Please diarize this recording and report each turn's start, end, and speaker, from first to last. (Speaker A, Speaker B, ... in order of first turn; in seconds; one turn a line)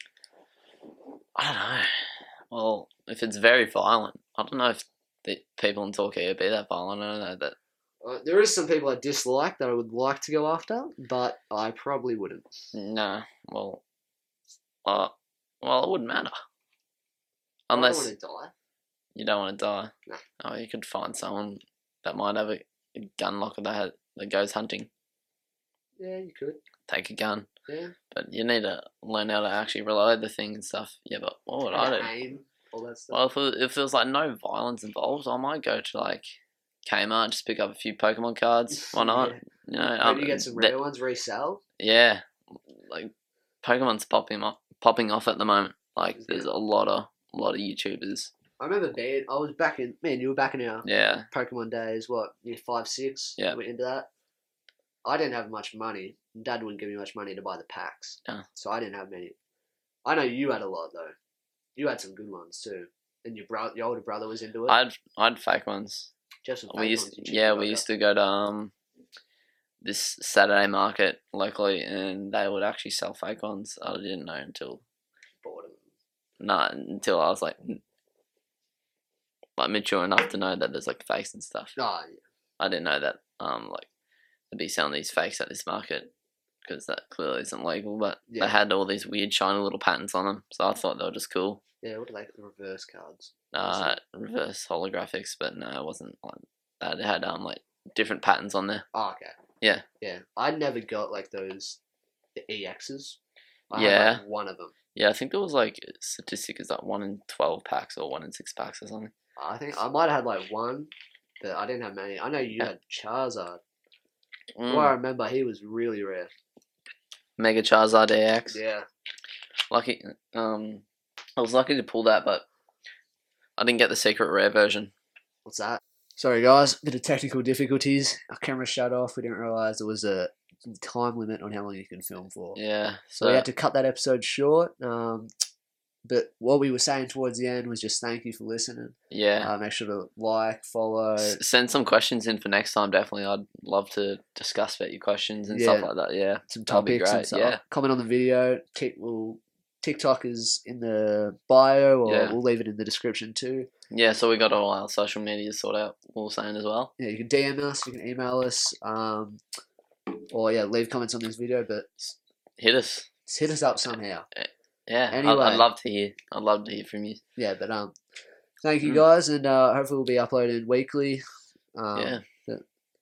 Speaker A: 1.4-7.5
Speaker B: 8.0-12.5
Speaker A: 12.7-13.8
Speaker A: 14.8-16.4
Speaker A: 17.7-18.1
Speaker B: 17.7-18.5
Speaker A: 19.1-24.9
Speaker B: 26.0-26.6
Speaker A: 26.9-27.5
Speaker B: 27.7-27.9
Speaker A: 28.1-32.1
Speaker B: 31.7-33.2
Speaker A: 33.1-36.3
Speaker A: 36.9-40.7
Speaker B: 38.8-39.4
Speaker B: 40.0-41.6
Speaker A: 41.8-43.1
Speaker A: 43.6-48.3
Speaker B: 46.2-46.5
Speaker B: 48.6-54.1
Speaker A: 50.8-51.3
Speaker B: 55.0-59.4
Speaker B: 60.0-61.1
Speaker B: 61.8-64.8
Speaker A: 64.7-66.1
Speaker B: 66.4-67.8
Speaker A: 66.7-68.7
Speaker A: 69.8-74.8
Speaker B: 75.4-75.9
Speaker A: 76.4-77.8
Speaker A: 79.6-81.7
Speaker B: 81.8-82.2
Speaker A: 82.6-83.9
Speaker A: 84.5-86.1
Speaker A: 86.6-91.6
Speaker B: 88.3-88.6
Speaker B: 91.8-93.9
Speaker A: 93.5-98.8
Speaker B: 98.9-99.4
Speaker B: 100.0-101.8
Speaker B: 102.3-103.2
Speaker B: 103.7-104.7
Speaker A: 103.7-104.2
Speaker A: 104.9-109.1
Speaker B: 109.4-110.9
Speaker B: 111.4-113.6
Speaker A: 114.6-114.9
Speaker B: 114.7-116.3
Speaker A: 117.4-118.6
Speaker B: 118.5-118.8
Speaker A: 119.7-120.8
Speaker A: 121.4-122.5
Speaker A: 123.6-124.9
Speaker B: 125.4-132.6
Speaker A: 132.5-133.4
Speaker B: 133.2-135.3
Speaker B: 136.0-141.4
Speaker A: 139.1-139.5
Speaker A: 141.2-147.6
Speaker B: 145.5-145.9
Speaker B: 146.5-153.7
Speaker A: 152.1-152.3
Speaker A: 153.9-156.9
Speaker B: 157.0-159.4
Speaker B: 160.3-161.9
Speaker A: 162.1-163.1
Speaker B: 163.3-164.2
Speaker A: 164.3-167.2
Speaker B: 165.1-165.7
Speaker B: 167.4-167.9
Speaker B: 168.6-171.2
Speaker B: 171.7-172.6
Speaker A: 171.9-172.2